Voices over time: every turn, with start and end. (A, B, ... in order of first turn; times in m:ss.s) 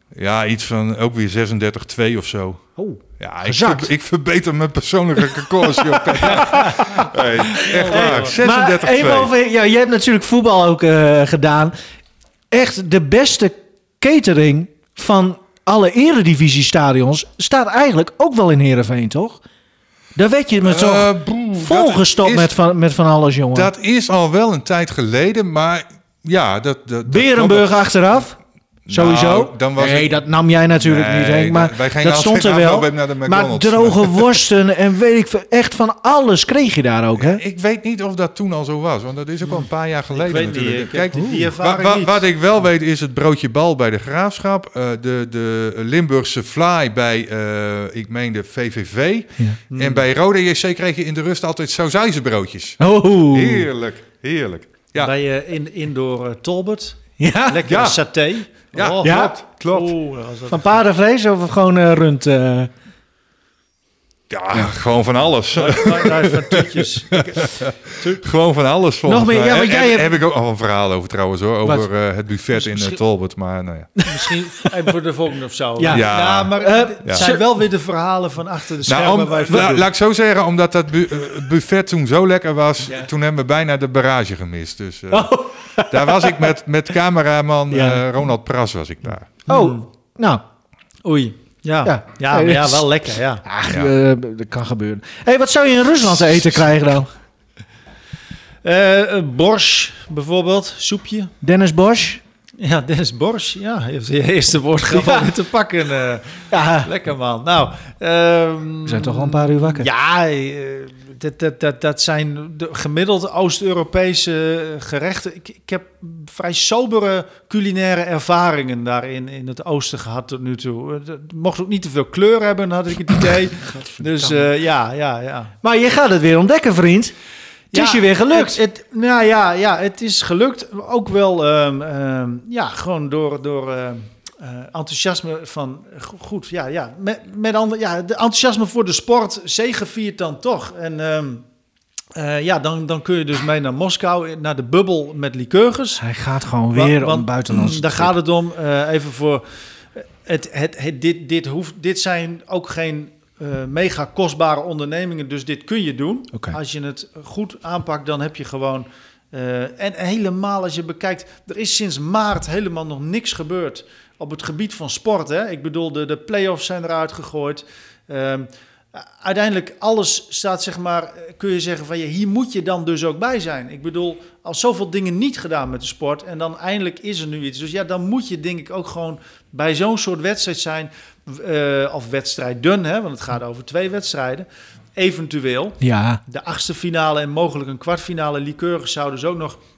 0:00.2-0:02.7 A
0:02.8-0:03.9 B
0:03.2-0:09.3 A
0:05.2-0:07.0 B
0:07.6-0:08.4 C
0:07.8-0:11.8 B
0:12.5-0:19.4 B
0:20.2-0:23.7 B
0:20.6-0:22.5 A
0:23.5-0:27.7 A
0:27.1-0:28.4 B
0:28.9-0:30.2 A
0:28.9-0:37.4 B
0:30.8-0:34.3 A
0:37.2-0:55.1 A
0:39.5-0:42.2 C
0:41.1-0:41.4 B
0:49.7-0:50.0 C
0:52.8-0:53.7 B
0:55.0-1:00.8 C
0:57.2-0:57.6 B
0:57.7-0:58.0 A
0:58.6-0:59.9 A
0:59.0-0:59.4 B
1:00.5-1:02.7 B
1:04.3-1:06.3 A
1:05.5-1:08.2 C
1:07.1-1:13.9 A
1:09.1-1:10.1 B
1:12.5-1:13.0 C
1:14.0-1:14.3 B
1:14.1-1:19.9 C
1:15.8-1:17.4 B
1:15.9-1:17.3 A
1:18.9-1:29.3 A
1:19.5-1:19.8 B
1:25.1-1:26.5 B
1:27.7-1:28.0 B
1:29.5-1:30.4 B
1:29.5-1:29.8 C
1:31.0-1:33.4 C
1:31.8-1:32.9 B
1:33.4-1:37.1 B
1:33.7-1:33.9 A
1:38.6-1:41.3 C
1:41.4-1:42.2 B
1:42.6-2:05.5 C
1:44.9-1:45.2 B
1:46.5-1:46.9 B
1:48.9-1:49.9 B
2:04.2-2:04.5 B
2:05.6-2:07.1 B
2:07.7-2:08.6 B
2:07.7-2:21.4 C
2:22.2-2:26.0 C
2:26.0-2:28.1 B
2:26.7-2:29.4 C
2:30.0-3:09.6 C
3:05.8-3:06.2 B